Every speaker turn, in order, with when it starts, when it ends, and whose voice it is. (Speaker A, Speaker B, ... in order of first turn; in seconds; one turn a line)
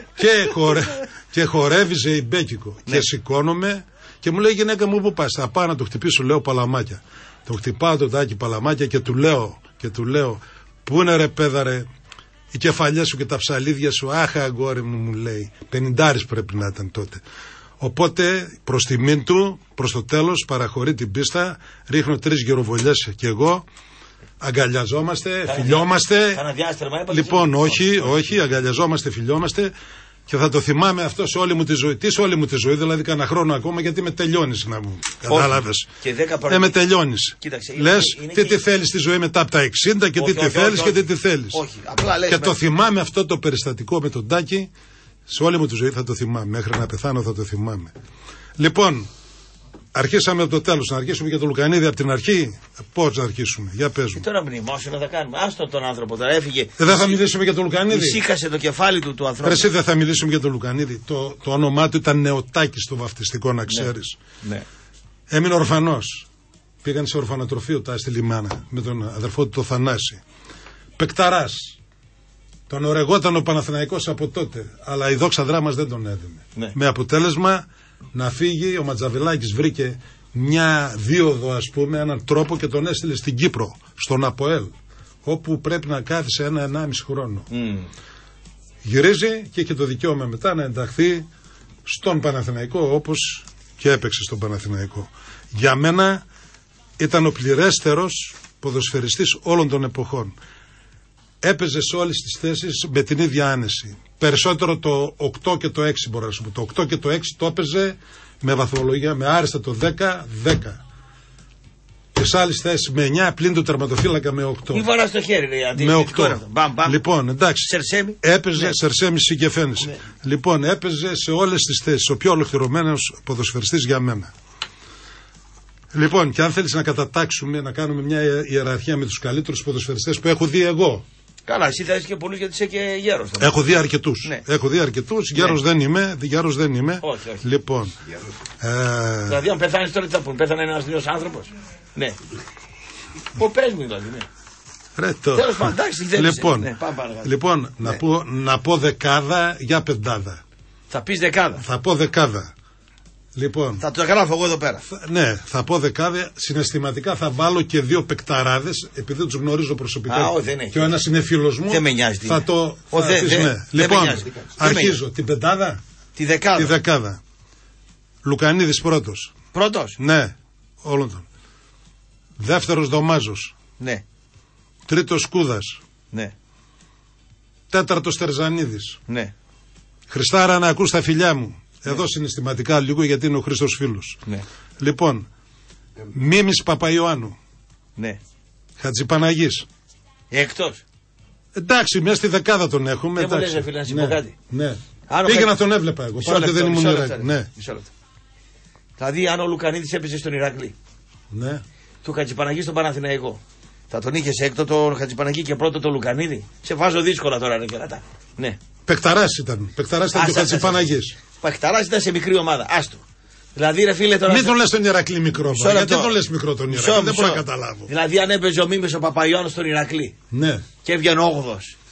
Speaker A: 0.2-11.9
Speaker A: 12.5-17.2
Speaker A: 17.8-23.6
Speaker A: 24.4-26.4
Speaker B: 25.5-28.4
Speaker A: 27.1-29.7
Speaker A: 30.3-35.9
Speaker B: 35.2-36.8
Speaker A: 36.5-41.6
Speaker B: 37.4-38.6
Speaker B: 40.2-42.6
Speaker A: 42.3-44.7
Speaker A: 45.3-47.9
Speaker A: 48.6-49.1
Speaker A: 50.0-54.2
Speaker B: 54.1-57.2
Speaker A: 56.8-58.2
Speaker B: 57.9-59.7
Speaker A: 59.4-64.2
Speaker A: 65.3-66.2
Speaker A: 66.8-70.2
Speaker A: 71.0-71.8
Speaker A: 72.7-84.7
Speaker A: 85.2-87.5
Speaker B: 87.5-87.9
Speaker A: 88.8-91.3
Speaker A: 91.9-96.2
Speaker A: 97.0-100.4
Speaker A: 101.4-110.8
Speaker A: 112.2-114.9
Speaker B: 114.7-117.0
Speaker A: 115.8-117.7
Speaker B: 117.6-118.7
Speaker A: 118.2-124.3
Speaker A: 125.9-131.1
Speaker B: 131.5-133.7
Speaker A: 133.4-137.9
Speaker B: 137.0-137.4
Speaker A: 138.6-139.4
Speaker B: 139.3-142.2
Speaker B: 143.4-144.3
Speaker A: 145.0-146.7
Speaker B: 145.3-148.0
Speaker A: 147.2-150.4
Speaker B: 150.9-151.6
Speaker A: 151.6-152.5
Speaker A: 153.3-153.8
Speaker B: 153.8-154.9
Speaker A: 154.9-165.8
Speaker B: 160.1-161.0
Speaker B: 161.7-165.0
Speaker B: 166.2-166.8
Speaker A: 166.6-167.2
Speaker A: 168.2-169.3
Speaker B: 169.5-170.0
Speaker A: 170.0-171.3
Speaker A: 172.4-173.5
Speaker A: 174.9-175.8
Speaker A: 177.7-179.0
Speaker A: 180.1-184.2
Speaker A: 184.8-185.3
Speaker A: 186.1-187.4
Speaker A: 188.8-189.7
Speaker B: 190.3-190.8
Speaker A: 191.6-197.5
Speaker B: 193.2-194.3
Speaker B: 195.1-195.5
Speaker B: 196.2-197.9
Speaker B: 199.0-200.7
Speaker A: 201.3-201.6
Speaker B: 202.0-203.4
Speaker B: 203.9-208.6
Speaker A: 208.9-211.2
Speaker B: 210.1-213.0
Speaker B: 213.6-214.5
Speaker A: 214.3-217.9
Speaker B: 215.5-216.1
Speaker B: 216.7-220.2
Speaker A: 220.3-220.6
Speaker B: 220.8-221.7